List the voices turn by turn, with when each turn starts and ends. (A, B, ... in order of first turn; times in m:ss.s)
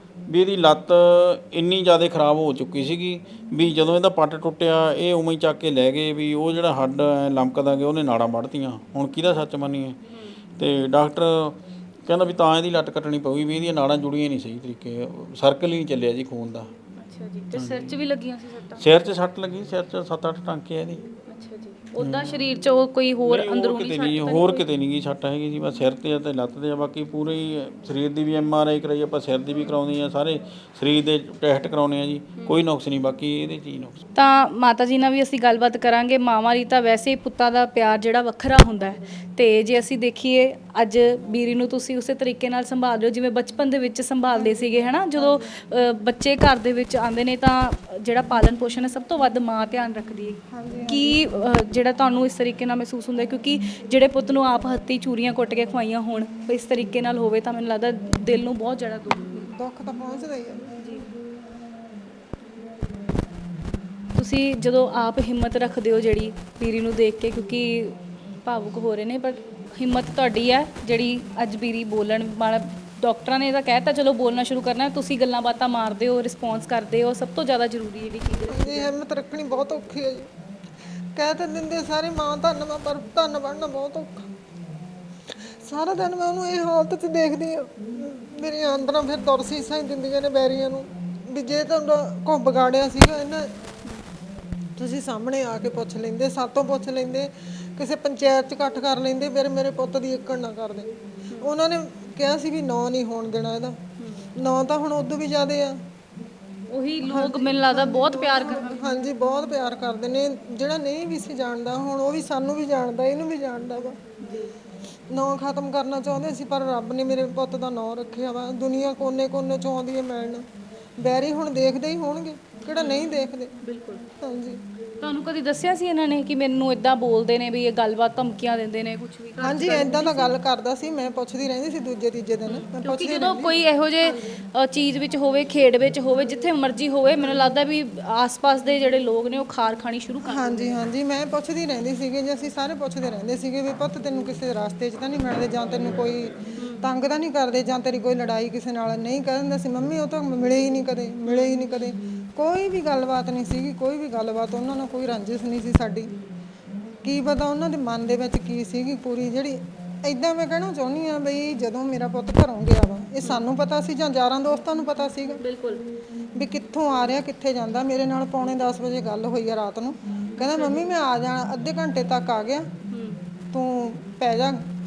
0:00.3-0:10.0 A
0:10.1-0:10.4 B
0:10.6-0:16.7 A
0:17.0-0:18.9 B
0:17.5-0:18.0 A
0:18.8-0:21.1 A
0:21.3-0:24.7 B
0:22.0-0:22.4 A
0:23.3-0:34.0 A
0:34.2-0:59.5 B
0:44.3-0:45.5 C
0:50.5-0:51.2 C
0:59.4-1:00.8 C
1:00.8-1:01.1 B
1:04.1-1:18.9 B
1:18.5-1:20.3 C
1:21.2-1:24.3 C
1:25.3-1:33.5 C
1:34.8-1:43.8 C
1:44.0-1:44.3 B
1:44.4-1:45.8 C
1:46.7-1:48.8 B
1:47.0-1:54.0 C
1:54.2-1:54.5 B
1:55.1-2:00.4 C
2:01.0-2:03.6 C
2:02.7-2:04.0 B
2:04.2-2:04.6 C
2:05.0-2:10.4 B
2:09.4-2:14.3 C
2:12.5-2:20.7 B
2:20.2-2:36.1 C
2:26.6-2:26.8 B
2:31.3-2:31.6 B
2:37.0-2:45.4 C
2:45.4-2:45.8 B
2:46.4-2:52.7 C
2:50.6-2:50.9 B
2:52.9-2:53.2 B
2:53.5-2:54.6 C